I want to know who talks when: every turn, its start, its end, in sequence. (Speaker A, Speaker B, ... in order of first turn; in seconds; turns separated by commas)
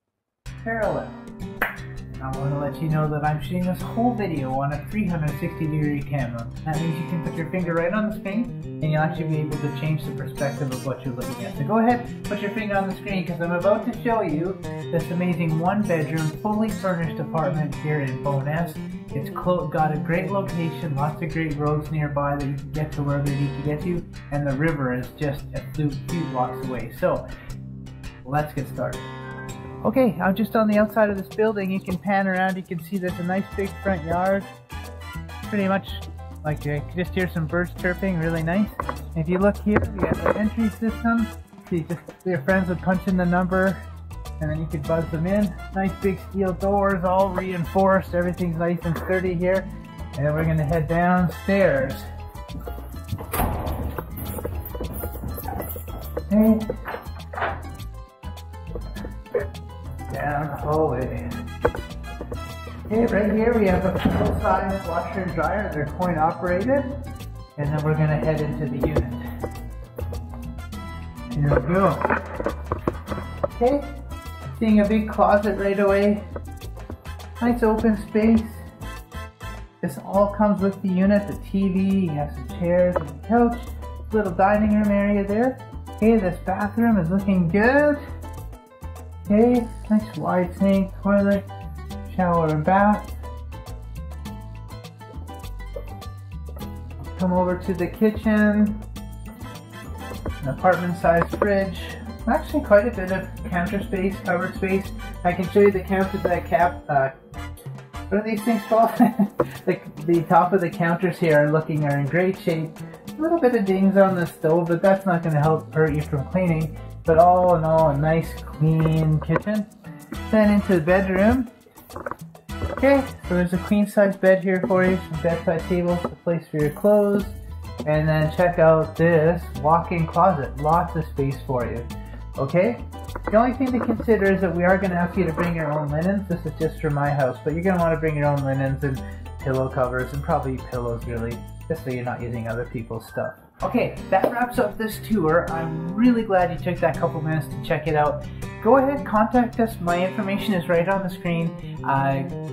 Speaker A: 0.6-1.2, Speaker A: 2.1-27.3, Speaker A: 28.2-29.1, Speaker A: 29.8-34.5, Speaker A: 35.5-43.8, Speaker A: 44.4-52.1, Speaker A: 56.3-56.7, Speaker A: 60.1-61.3, Speaker A: 62.9-67.0, Speaker A: 67.6-69.3, Speaker A: 71.3-72.1, Speaker A: 73.6-73.9, Speaker A: 74.5-76.2, Speaker A: 77.4-78.6, Speaker A: 79.8-88.0, Speaker A: 89.3-91.5, Speaker A: 92.1-93.1, Speaker A: 97.2-98.8, Speaker A: 100.4-107.1, Speaker A: 108.1-119.7, Speaker A: 120.3-121.5, Speaker A: 122.8-152.4